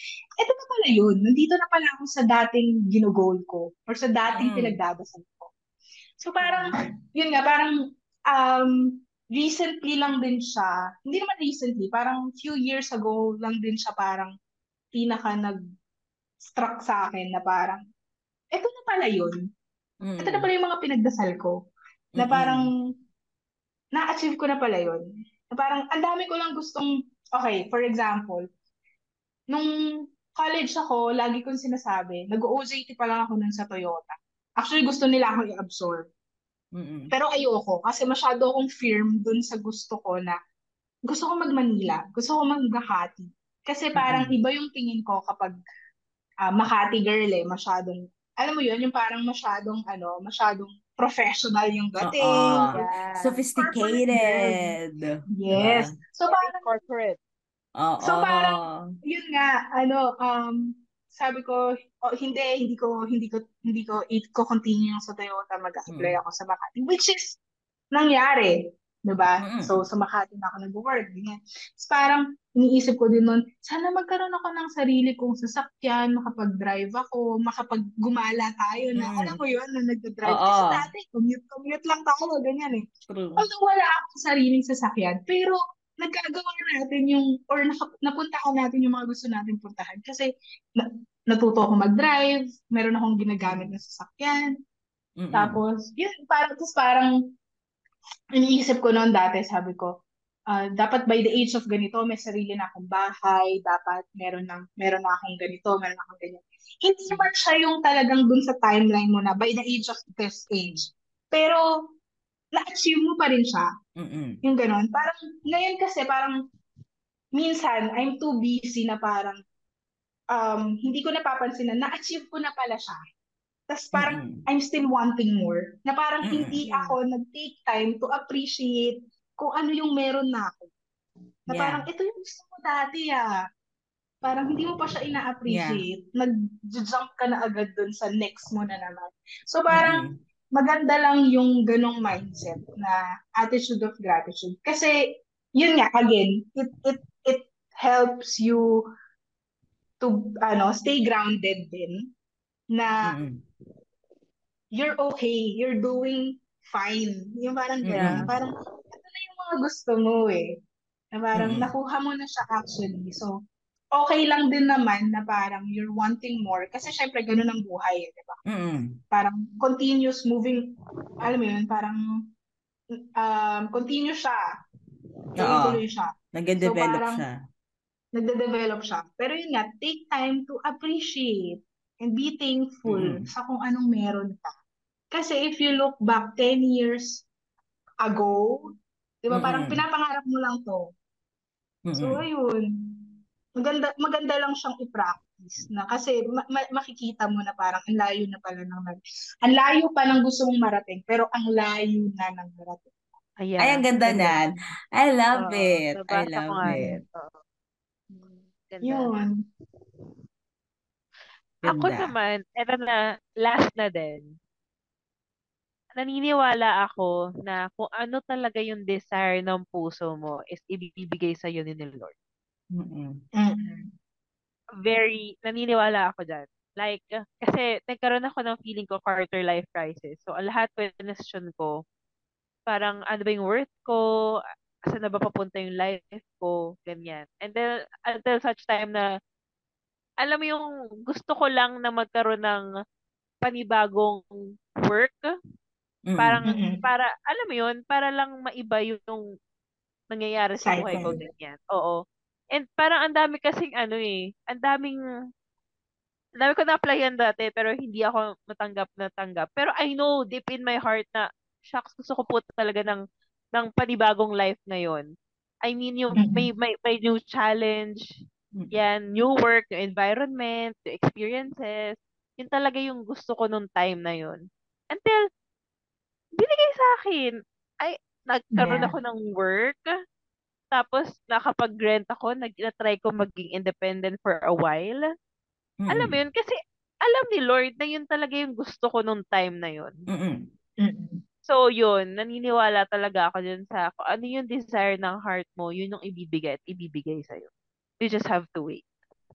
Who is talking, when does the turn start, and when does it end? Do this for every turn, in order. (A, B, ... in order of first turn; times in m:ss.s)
0:00.4-0:05.5 A
0:04.3-0:04.8 B
0:06.2-0:07.7 A
0:06.4-0:06.7 C
0:08.3-0:14.3 A
0:14.9-0:15.6 A
0:16.4-0:17.8 A
0:18.5-0:19.4 A
0:20.0-0:20.5 B
0:20.2-0:21.6 A
0:22.2-0:22.7 B
0:22.2-0:22.7 A
0:23.9-0:28.4 A
0:30.3-0:36.0 A
0:36.8-0:37.1 B
0:37.1-0:40.3 A
0:41.1-0:45.6 A
0:44.0-0:44.3 B
0:46.4-0:52.7 A
0:52.0-0:56.0 B
0:52.7-0:53.4 C
0:53.6-0:54.7 A
0:55.4-0:56.7 A
0:56.3-0:57.2 C
0:57.8-0:58.8 B
0:58.0-1:07.4 A
1:05.9-1:06.2 B
1:07.9-1:22.8 A
1:09.4-1:09.8 B
1:19.0-1:19.4 B
1:20.3-1:20.8 B
1:23.1-1:23.4 B
1:23.4-1:34.5 A
1:33.4-1:33.7 B
1:35.2-1:35.6 B
1:35.3-1:37.1 A
1:38.4-1:51.6 A
1:50.6-1:50.8 B
1:52.5-1:53.7 A
1:54.0-1:54.4 B
1:54.4-1:56.4 A
1:57.4-1:59.4 A
2:00.3-2:03.0 A
2:03.7-2:10.7 A
2:03.9-2:04.4 B
2:06.2-2:06.6 B
2:06.7-2:06.9 C
2:11.5-2:13.2 A
2:11.5-2:11.8 B
2:14.2-2:20.0 A
2:15.5-2:15.8 B
2:19.7-2:20.2 B
2:20.5-2:24.9 A
2:25.6-2:28.9 A
2:30.0-2:32.0 A
2:32.7-2:33.1 A
2:33.0-2:33.4 B
2:34.8-2:40.5 A
2:37.9-2:38.2 B
2:37.9-2:38.3 C
2:41.1-2:43.4 A
2:41.4-2:41.7 B
2:43.9-2:48.4 A
2:48.5-2:49.0 B
2:49.1-2:52.0 A
2:53.2-2:54.4 A
2:55.4-2:55.8 B
2:55.4-2:57.2 A
2:56.3-2:57.3 B
2:58.1-3:04.5 A
3:02.8-3:03.3 B
3:05.1-3:07.2 A
3:08.0-3:08.6 A
3:09.2-3:10.8 A
3:09.3-3:09.8 B
3:11.9-3:12.2 B
3:12.0-3:13.1 A
3:13.6-3:23.0 A
3:23.4-3:24.4 C
3:23.6-3:27.0 B
3:25.4-3:27.4 C
3:26.6-3:26.9 A
3:28.7-3:29.1 C
3:28.8-3:29.3 A
3:31.6-3:34.3 C
3:31.6-3:32.1 B
3:36.0-3:42.1 C
3:42.7-3:43.2 B
3:43.4-3:43.9 A
3:44.8-3:51.8 C
3:52.6-3:54.0 C
3:54.9-3:59.0 C
4:00.2-4:02.6 C
4:03.4-4:04.2 C
4:04.8-4:05.3 C
4:06.1-4:06.4 B
4:06.2-4:09.2 C
4:06.5-4:06.8 A
4:10.1-4:12.0 C
4:10.6-4:11.2 A
4:12.5-4:15.0 C
4:16.4-4:23.0 C
4:23.5-4:25.0 C
4:25.6-4:28.0 C
4:26.2-4:26.5 A
4:28.7-4:35.2 C
4:36.4-4:39.8 C
4:38.6-4:38.9 A
4:40.7-4:45.0 C
4:45.8-4:46.1 B
4:45.9-4:49.9 C
4:50.1-4:50.5 B
4:50.8-4:51.2 A
4:51.4-4:57.5 C
4:58.0-4:58.8 C